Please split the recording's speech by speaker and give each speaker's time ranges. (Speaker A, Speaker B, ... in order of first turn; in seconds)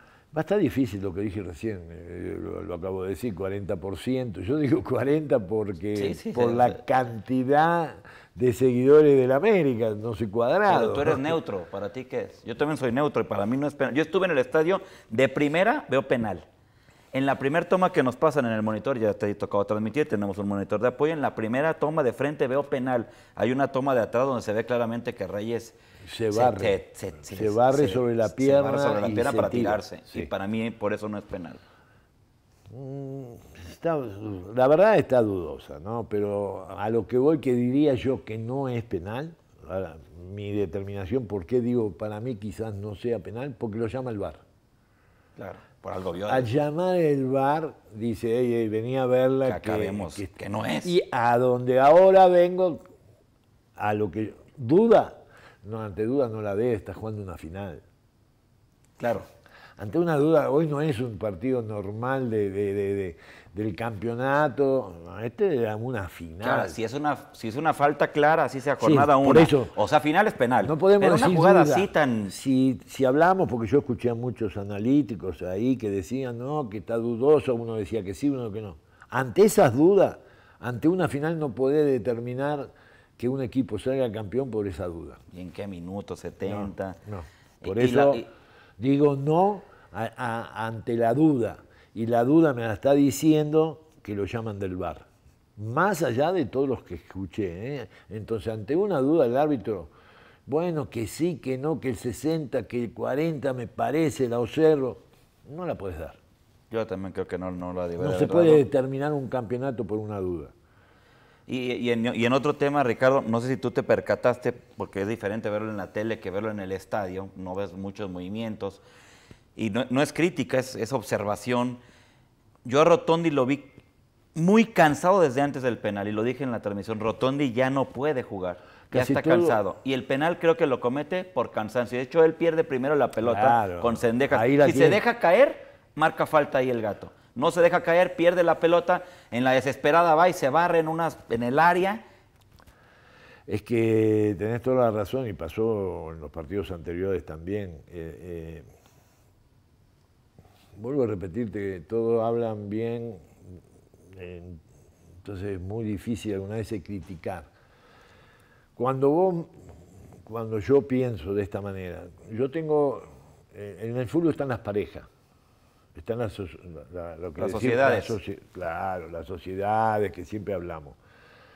Speaker A: 0.3-11.4, 26.0-30.3, 32.7-44.4, 46.3-50.3, 50.8-52.8, 53.8-57.8, 59.8-66.8, 68.8-69.7, 70.6-85.2, 86.5-88.2, 88.8-95.1, 95.6-99.9, 100.5-106.2, 108.0-110.5, 128.9-129.6, 133.2-135.0, 143.5-148.7, 150.8-153.3, 154.1-154.6, 155.2-157.5, 158.8-159.5, 160.2-165.1, 165.9-171.0
Speaker B: 6.0-6.8, 10.7-16.4, 17.1-25.8, 26.3-31.6, 45.4-46.5, 49.5-50.9, 59.0-59.3, 66.4-72.3, 85.3-87.0, 87.6-88.3, 106.7-108.6, 111.5-118.8, 119.6-121.8, 122.6-123.8, 124.3-142.0, 167.4-168.2